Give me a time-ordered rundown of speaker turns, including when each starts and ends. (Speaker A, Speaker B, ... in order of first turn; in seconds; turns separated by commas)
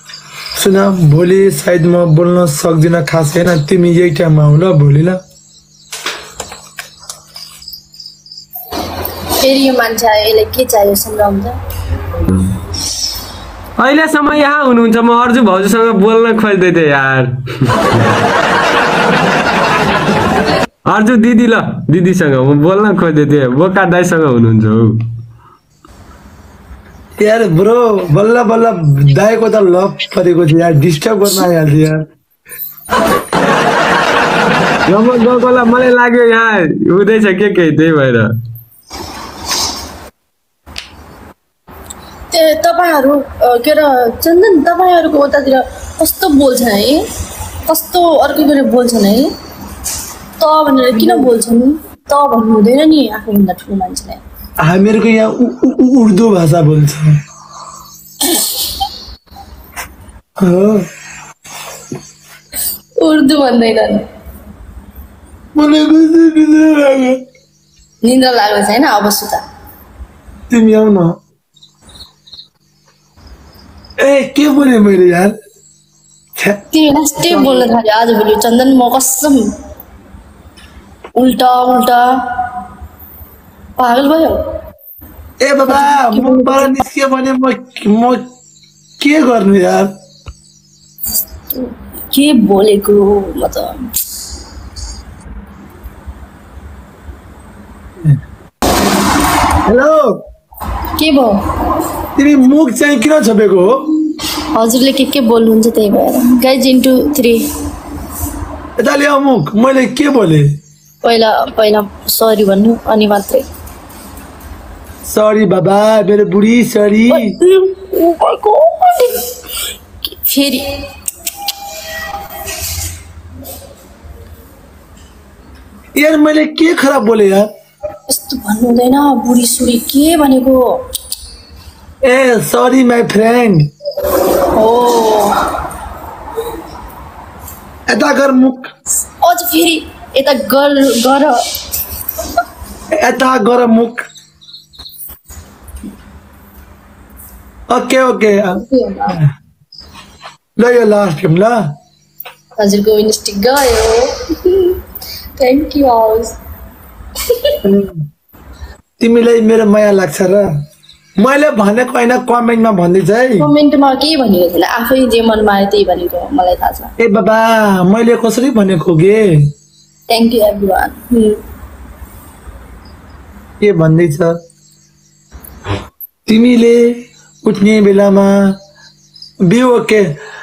Speaker A: 0.6-5.2, Speaker B: 9.4-11.6, Speaker C: 13.8-18.0, Speaker C: 20.9-25.0, Speaker A: 27.2-32.0, Speaker C: 34.9-38.3, Speaker B: 42.3-47.0, Speaker B: 47.7-49.3, Speaker B: 50.4-54.2, Speaker A: 50.9-51.3, Speaker A: 54.6-57.2, Speaker A: 60.4-60.9, Speaker B: 63.0-64.1, Speaker A: 65.6-67.2, Speaker B: 68.0-69.4, Speaker A: 70.5-71.2, Speaker A: 74.0-75.3, Speaker B: 76.7-79.4, Speaker A: 77.2-77.7, Speaker B: 81.2-82.0, Speaker B: 83.8-84.4, Speaker A: 85.4-88.3, Speaker B: 85.7-86.7, Speaker A: 89.0-89.9, Speaker B: 91.5-93.8, Speaker A: 99.7-100.2, Speaker B: 101.0-101.4, Speaker A: 102.2-103.9, Speaker B: 104.5-107.4, Speaker A: 108.8-110.5, Speaker B: 111.0-113.5, Speaker A: 115.1-117.4, Speaker B: 117.1-119.2, Speaker B: 120.0-120.7, Speaker A: 126.0-127.5, Speaker B: 128.1-130.8, Speaker A: 132.0-133.7, Speaker B: 134.6-135.4, Speaker A: 137.9-138.7, Speaker B: 139.2-141.4, Speaker A: 143.0-144.1, Speaker A: 147.7-149.3, Speaker B: 148.5-149.2, Speaker A: 150.6-151.8, Speaker B: 152.6-154.8, Speaker B: 155.4-156.4, Speaker B: 157.2-157.5, Speaker A: 157.6-158.1, Speaker A: 159.0-160.5, Speaker A: 161.2-163.5, Speaker B: 163.4-166.9, Speaker A: 167.0-169.3, Speaker B: 170.1-171.4, Speaker A: 173.6-174.3, Speaker A: 176.3-178.6, Speaker A: 179.5-180.2